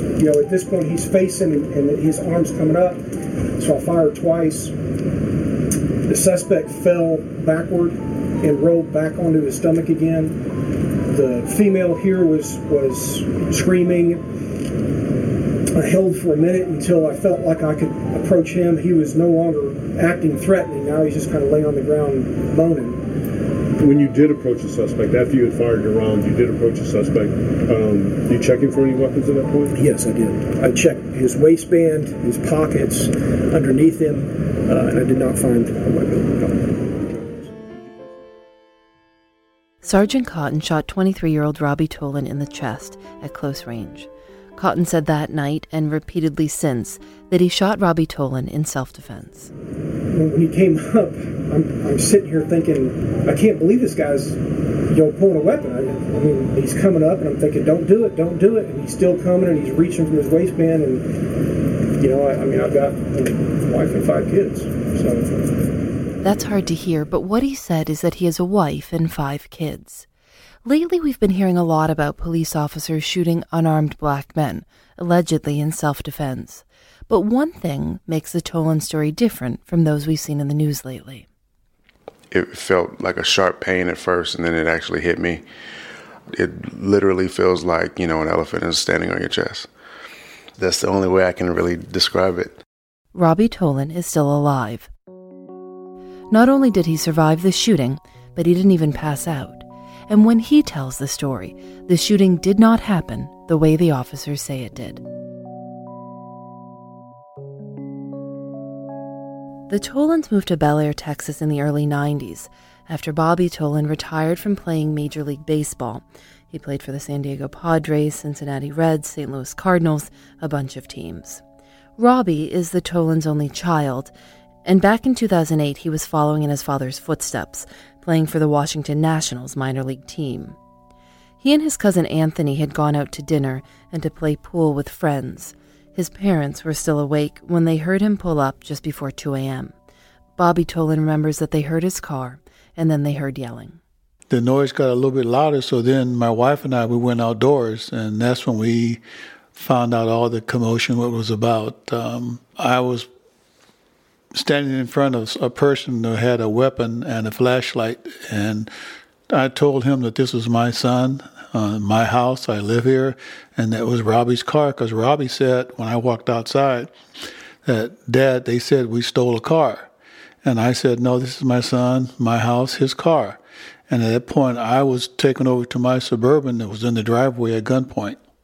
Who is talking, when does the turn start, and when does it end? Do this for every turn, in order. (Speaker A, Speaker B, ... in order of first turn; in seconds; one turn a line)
Speaker A: 0.2-3.0
Speaker A: 3.6-4.7
Speaker A: 6.1-10.4
Speaker A: 11.1-14.2
Speaker A: 15.8-23.0
Speaker B: 23.8-29.8
Speaker A: 29.8-37.5
Speaker C: 39.8-49.5
Speaker A: 50.1-61.2
Speaker A: 62.0-65.6
Speaker C: 66.2-70.1
Speaker C: 70.6-81.3
Speaker D: 82.3-85.4
Speaker D: 86.3-89.7
Speaker D: 90.6-92.6
Speaker C: 93.1-94.9
Speaker C: 96.3-105.0
Speaker C: 109.7-121.4
Speaker C: 122.0-124.1
Speaker C: 124.7-130.6
Speaker C: 131.4-139.7
Speaker C: 140.4-143.8
Speaker E: 144.3-149.0
Speaker E: 149.5-153.1
Speaker E: 154.3-158.7
Speaker E: 159.3-166.9
Speaker E: 167.6-169.9
Speaker E: 170.4-178.2